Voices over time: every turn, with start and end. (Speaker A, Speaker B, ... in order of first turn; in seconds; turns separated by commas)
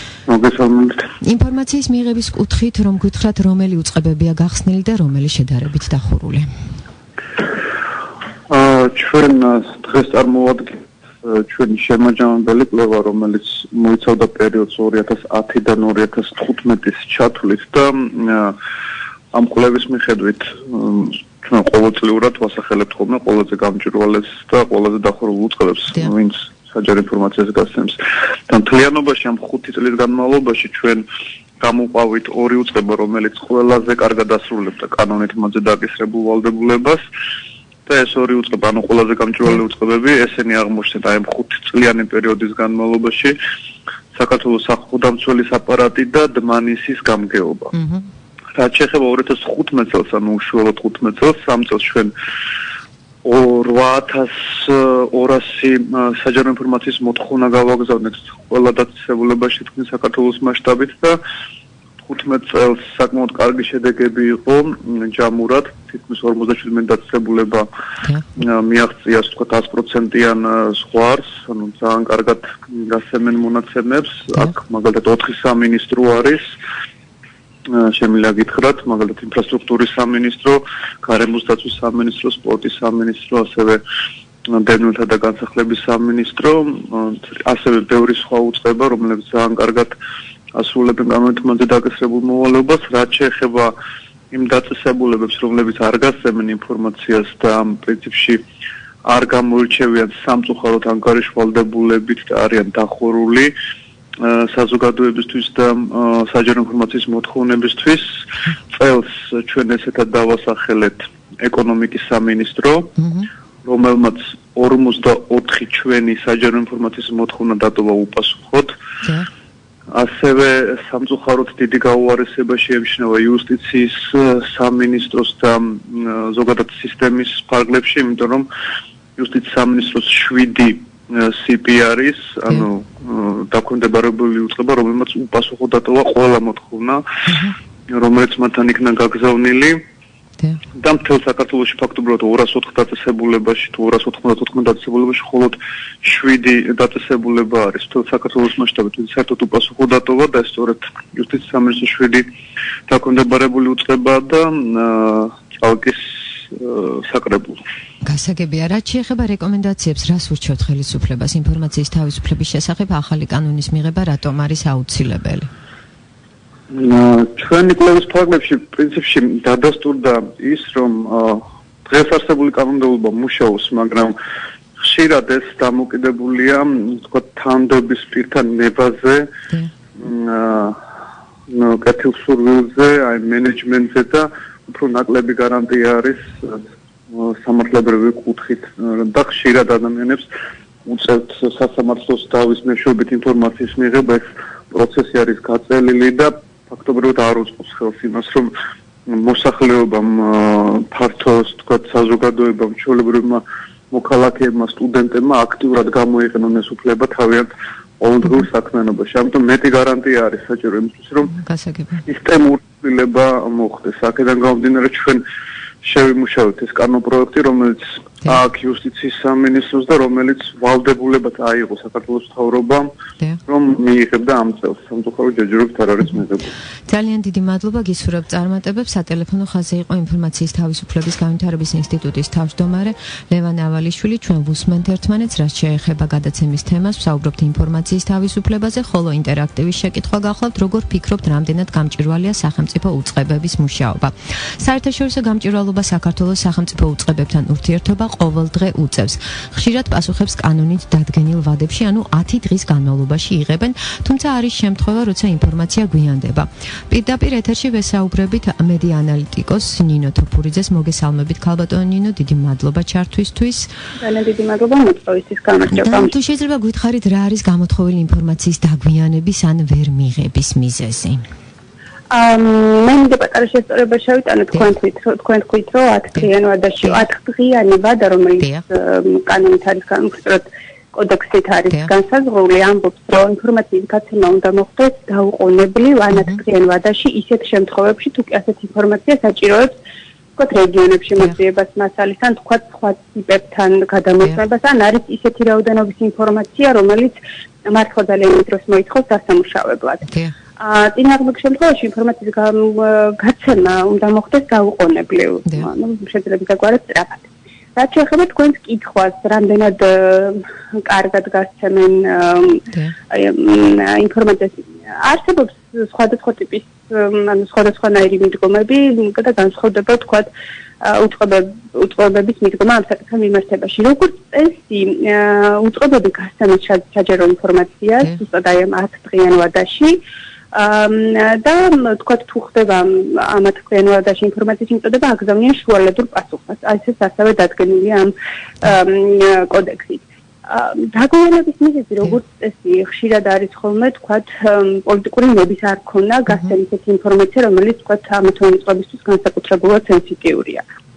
Speaker A: 0.3-1.0, Speaker B: 1.2-6.5, Speaker A: 8.5-18.6, Speaker A: 19.3-31.1, Speaker A: 31.6-37.0, Speaker A: 37.9-43.4, Speaker A: 44.1-47.7, Speaker B: 47.7-48.1, Speaker A: 48.5-52.1, Speaker A: 53.2-61.2, Speaker A: 62.0-67.7, Speaker A: 68.3-76.5, Speaker A: 77.7-83.8, Speaker A: 84.5-89.9, Speaker A: 90.5-93.7, Speaker A: 94.3-98.4, Speaker A: 99.0-103.5, Speaker A: 104.2-108.1, Speaker A: 108.7-112.9, Speaker B: 113.0-113.3, Speaker A: 113.6-118.7, Speaker B: 119.0-119.3, Speaker A: 119.9-128.5, Speaker A: 129.2-137.0, Speaker B: 137.3-137.5, Speaker A: 137.9-139.8, Speaker A: 140.8-152.3, Speaker A: 152.9-157.6, Speaker B: 158.0-165.5, Speaker A: 166.7-174.1, Speaker A: 174.8-179.3, Speaker A: 180.0-180.8, Speaker A: 181.5-190.2, Speaker A: 190.8-198.5, Speaker A: 199.1-211.3, Speaker B: 211.3-212.0, Speaker A: 212.0-215.2, Speaker A: 215.8-222.9, Speaker A: 223.5-226.5, Speaker B: 226.9-263.7, Speaker C: 264.0-266.1, Speaker B: 265.7-271.2, Speaker C: 272.1-289.7, Speaker B: 286.1-286.4, Speaker C: 290.4-320.3, Speaker B: 300.1-300.3, Speaker C: 320.8-330.0, Speaker C: 330.5-350.6, Speaker B: 346.3-346.5